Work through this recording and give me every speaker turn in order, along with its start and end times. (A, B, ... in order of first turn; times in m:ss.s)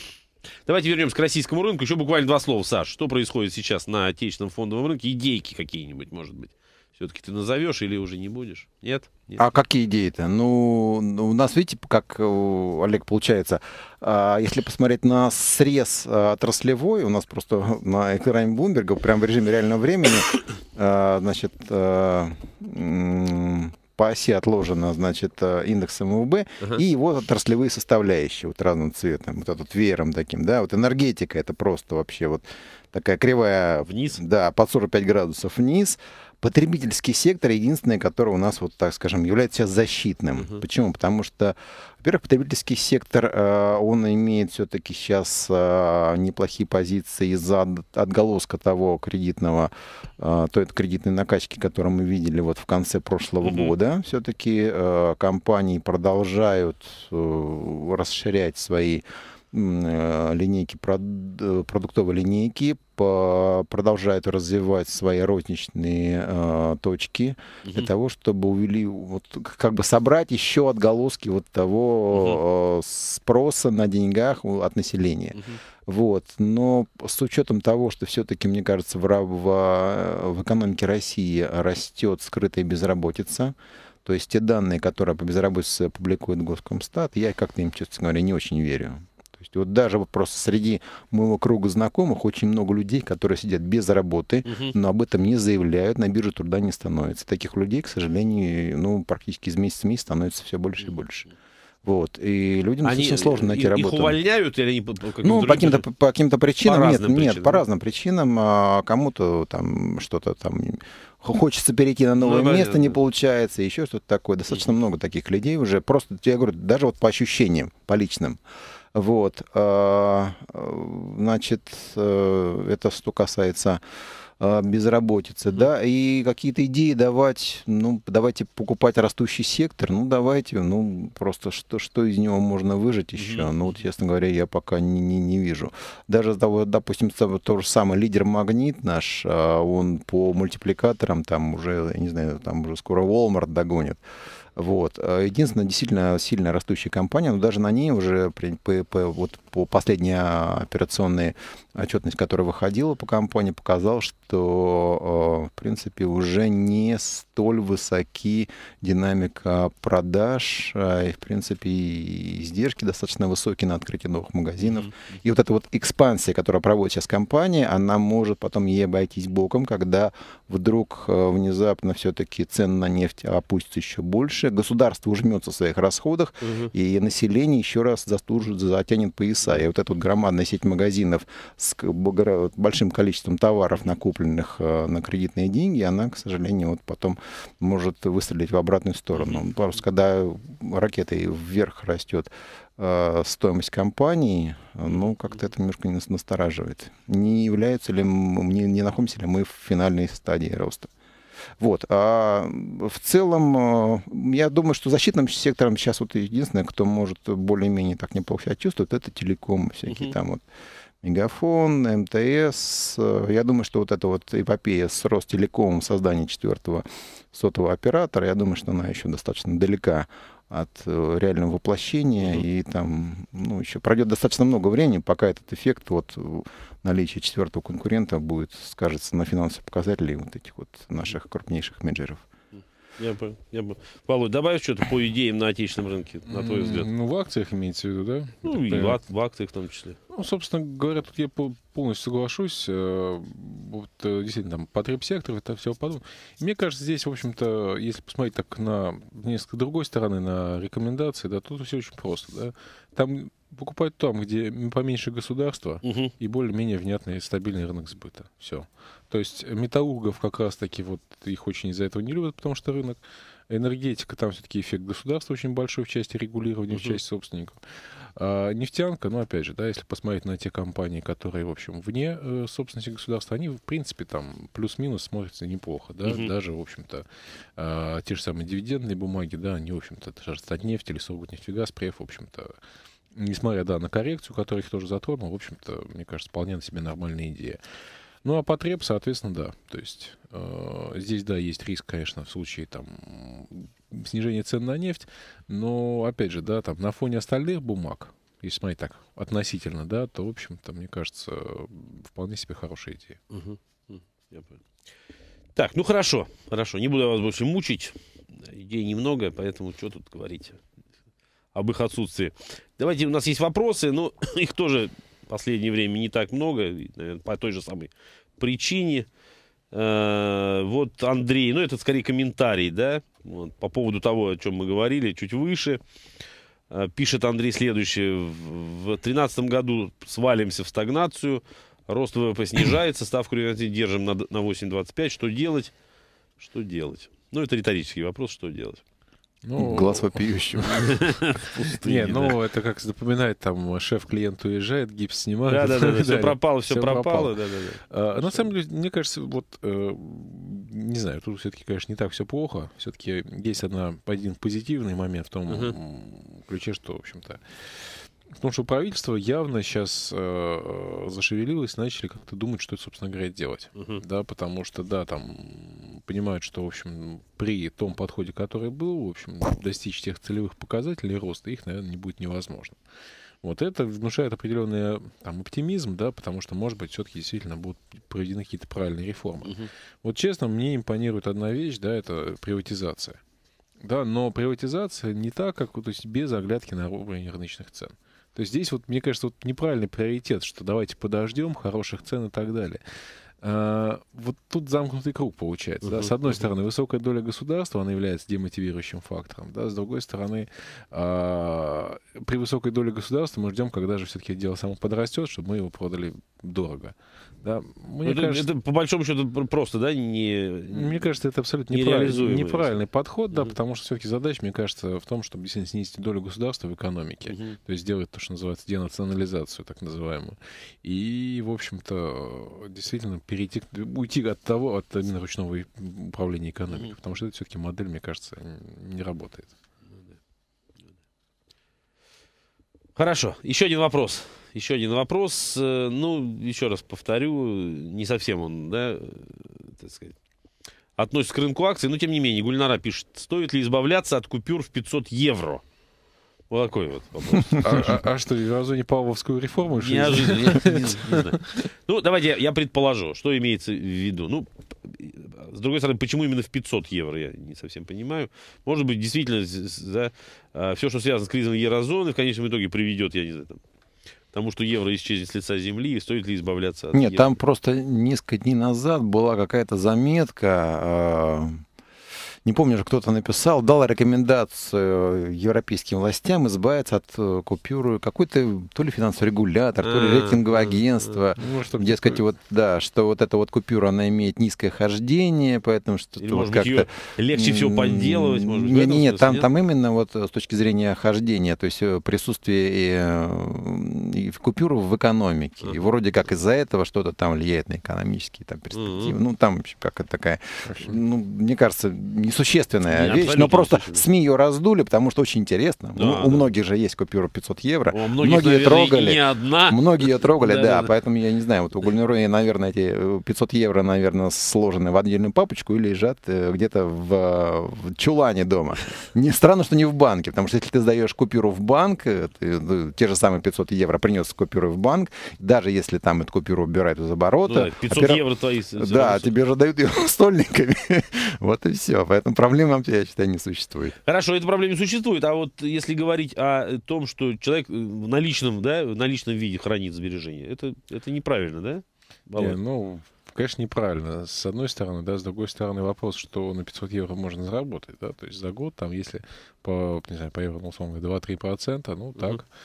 0:00.7-0:09.4 A
0:09.4-1:41.3 B
0:33.9-0:34.2 A
0:40.4-0:40.6 A
0:53.4-0:53.7 A
1:07.6-1:07.9 A
1:12.1-1:12.4 A
1:34.5-1:34.8 A
1:41.8-1:44.2 B
1:42.8-1:45.8 A
1:45.2-1:58.4 B
1:46.6-1:47.6 A
1:52.2-1:53.0 A
1:58.9-2:03.8 B
2:04.4-2:24.0 B
2:13.2-2:13.8 A
2:24.6-3:20.9 B
2:44.6-2:44.9 A
2:56.4-2:56.7 A
3:09.2-3:09.4 A
3:21.6-3:30.4 B
3:29.9-3:30.1 A
3:31.0-3:52.3 B
3:53.0-3:56.9 A
3:56.3-3:59.0 C
3:58.4-4:00.0 A
4:00.1-4:37.0 C
4:15.8-4:16.1 A
4:26.7-4:27.0 A
4:36.1-4:36.3 A
4:37.6-4:42.5 C
4:43.2-4:47.6 C
4:48.2-5:03.2 C
5:03.3-5:04.6 A
5:05.6-5:10.6 A
5:11.6-5:19.1 A
5:19.7-5:25.8 A
5:26.7-5:35.7 A
5:36.4-5:38.8 A
5:39.4-6:12.8 C
5:39.6-5:41.0 B
5:40.9-5:42.4 A
5:45.5-5:48.5 A
5:55.5-5:55.8 A
6:03.8-6:04.0 A
6:13.4-6:23.2 C
6:23.8-6:32.8 C
6:33.4-6:48.5 C
6:35.8-6:36.4 A
6:48.0-6:51.0 A
6:50.7-7:09.5 C
6:51.7-6:52.8 A
6:57.3-6:57.6 A
7:13.0-7:20.2 A
7:21.0-7:25.6 A
7:26.5-7:27.7 A
7:27.6-7:31.4 C
7:29.8-7:43.6 A
7:44.3-7:47.3 A
7:46.9-7:51.6 B
7:52.4-8:48.2 B
7:59.8-8:00.8 A
8:01.4-8:02.2 C
8:06.2-8:09.5 A
8:18.7-8:19.2 A
8:22.9-8:24.0 A
8:26.0-8:26.5 A
8:27.9-8:30.9 A
8:47.4-8:49.3 A
8:48.8-8:54.0 B
8:54.0-9:02.6 A
9:02.4-9:12.5 C